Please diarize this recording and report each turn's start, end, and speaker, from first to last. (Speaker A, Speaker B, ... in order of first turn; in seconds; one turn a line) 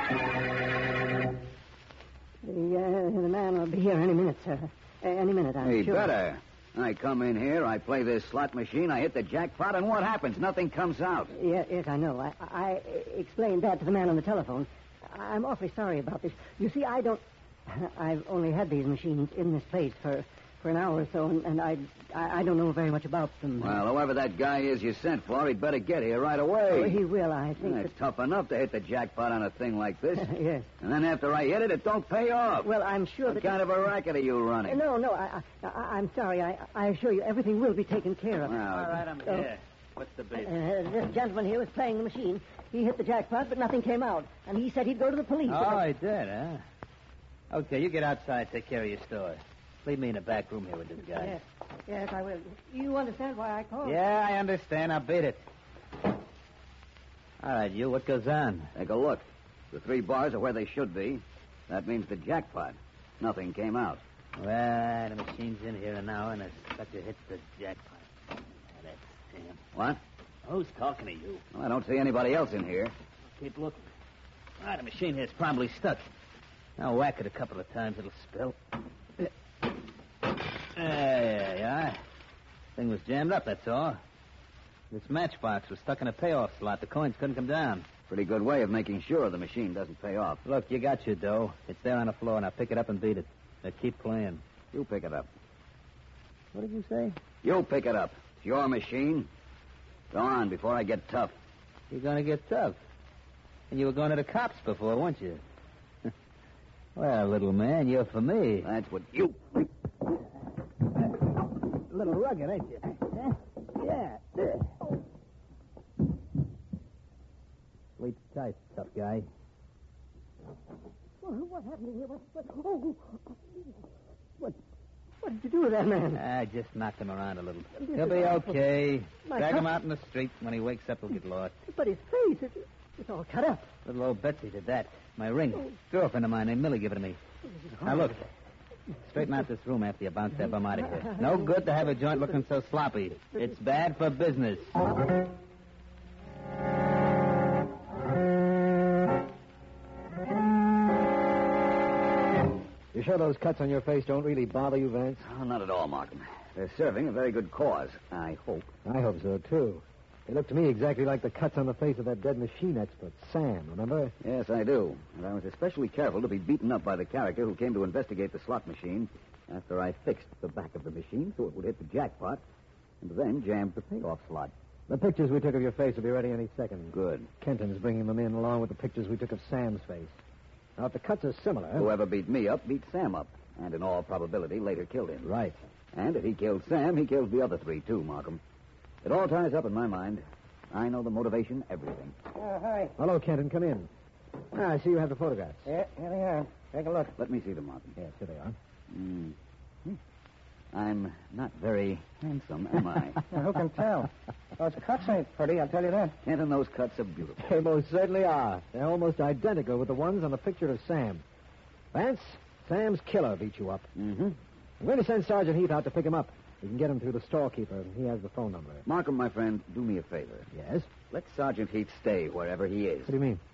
Speaker A: 2.4-6.1
Speaker B: 5.6-11.3
Speaker A: 11.3-23.8
Speaker B: 23.6-27.0
Speaker A: 26.7-27.9
Speaker B: 27.6-32.7
Speaker A: 30.1-30.6
Speaker A: 32.6-33.6
Speaker B: 33.2-34.8
Speaker A: 34.6-38.6
Speaker B: 38.4-39.0
Speaker C: 38.6-40.5
Speaker A: 39.2-39.5
Speaker A: 40.4-45.8
Speaker C: 45.5-46.6
Speaker C: 47.5-51.4
Speaker A: 51.1-54.0
Speaker C: 53.8-55.4
Speaker C: 57.4-58.7
Speaker B: 58.7-64.0
Speaker C: 64.4-68.1
Speaker C: 68.7-69.6
Speaker B: 69.7-70.0
Speaker C: 70.4-71.4
Speaker B: 71.5-72.9
Speaker C: 73.4-73.9
Speaker C: 74.6-76.1
Speaker C: 76.8-78.6
Speaker C: 80.7-82.0
Speaker C: 82.8-84.0
Speaker C: 84.9-87.9
Speaker B: 88.1-90.4
Speaker C: 90.4-94.4
Speaker B: 94.7-95.3
Speaker C: 96.5-97.2
Speaker B: 97.4-99.3
Speaker B: 100.1-101.3
Speaker C: 101.9-102.8
Speaker C: 103.7-105.4
Speaker C: 107.0-108.7
Speaker B: 108.6-109.7
Speaker C: 111.9-114.7
Speaker C: 118.0-119.3
Speaker A: 121.2-123.8
Speaker A: 125.2-126.2
Speaker C: 126.1-131.6
Speaker A: 127.8-128.6
Speaker A: 129.2-129.7
Speaker A: 131.7-133.7
Speaker C: 133.8-137.2
Speaker A: 137.4-138.2
Speaker C: 137.8-138.2
Speaker C: 139.0-144.7
Speaker A: 140.7-141.6
Speaker D: 152.9-155.2
Speaker B: 155.2-158.7
Speaker D: 158.8-164.1
Speaker B: 164.2-172.4
Speaker B: 173.0-174.5
Speaker D: 174.9-180.2
Speaker B: 176.9-177.3
Speaker D: 180.8-181.9
Speaker B: 181.8-185.3
Speaker D: 185.2-185.6
Speaker B: 185.9-188.4
Speaker B: 189.0-192.1
Speaker E: 192.3-192.9
Speaker D: 193.0-193.9
Speaker D: 194.5-195.7
Speaker E: 195.7-197.1
Speaker B: 197.2-197.9
Speaker D: 197.9-198.6
Speaker B: 198.9-200.0
Speaker B: 200.7-203.3
Speaker E: 203.3-206.2
Speaker B: 206.2-207.6
Speaker D: 207.4-211.2
Speaker D: 211.9-213.9
Speaker B: 213.9-214.4
Speaker D: 214.8-218.8
Speaker B: 218.8-220.5
Speaker D: 220.5-220.9
Speaker B: 221.1-223.1
Speaker D: 223.1-223.4